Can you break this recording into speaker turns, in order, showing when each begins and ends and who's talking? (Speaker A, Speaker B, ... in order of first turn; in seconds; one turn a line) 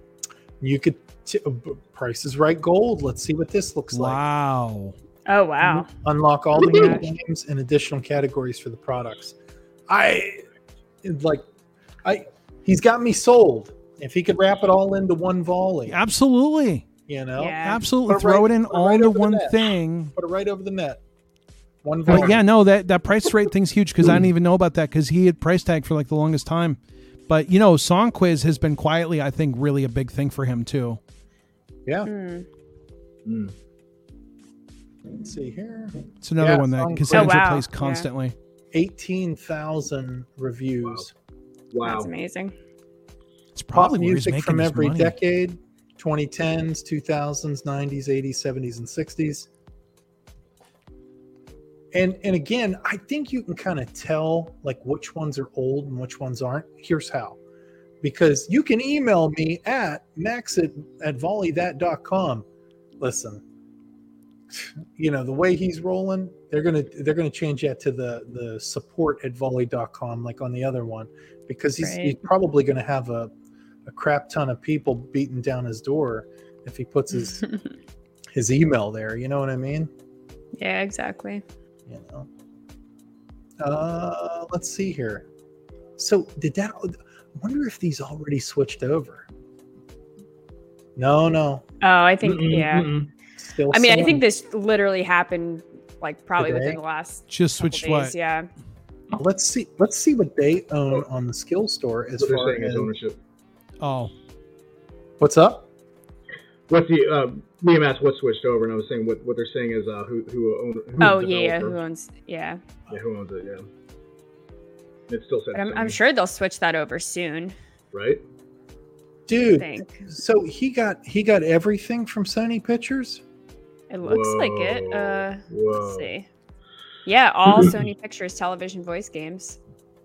Speaker A: 0.6-4.2
Speaker B: 3.9-5.0
Speaker C: 5.3-5.9
Speaker A: 5.6-9.4
Speaker C: 6.5-7.1
Speaker D: 6.6-6.9
Speaker A: 9.9-10.4
Speaker A: 11.0-11.4
Speaker A: 12.0-16.0
Speaker B: 15.9-16.9
Speaker A: 17.1-21.0
Speaker C: 17.4-17.8
Speaker B: 17.6-20.1
Speaker A: 21.8-22.4
Speaker D: 22.1-22.4
Speaker B: 22.1-31.0
Speaker C: 32.1-32.5
Speaker D: 33.3-33.5
Speaker A: 35.2-37.4
Speaker B: 36.2-38.4
Speaker C: 37.1-38.1
Speaker A: 38.7-41.1
Speaker D: 40.8-41.1
Speaker D: 41.7-42.1
Speaker C: 41.8-42.5
Speaker B: 43.5-45.2
Speaker A: 43.7-49.5
Speaker A: 51.9-57.4
Speaker A: 58.0-62.5
Speaker A: 63.0-63.4
Speaker A: 64.5-73.3
Speaker C: 71.8-72.2
Speaker A: 73.9-77.5
Speaker A: 78.3-79.9
Speaker C: 80.6-81.4
Speaker A: 81.9-82.3
Speaker A: 83.6-85.3
Speaker A: 86.0-89.3
Speaker A: 91.0-91.6
Speaker C: 91.8-92.9
Speaker D: 92.2-93.1
Speaker A: 93.4-94.2
Speaker C: 93.7-98.5
Speaker A: 96.4-96.8
Speaker B: 97.3-98.2
Speaker A: 99.2-102.9
Speaker D: 102.2-103.2
Speaker B: 103.8-104.1
Speaker A: 105.2-105.7
Speaker D: 106.7-111.8
Speaker C: 111.0-112.6
Speaker D: 112.9-113.7
Speaker D: 115.1-116.0
Speaker C: 115.5-117.5
Speaker D: 117.9-118.2
Speaker A: 119.3-123.2
Speaker C: 119.5-120.0
Speaker C: 123.9-126.3
Speaker D: 124.0-126.1
Speaker C: 127.1-129.6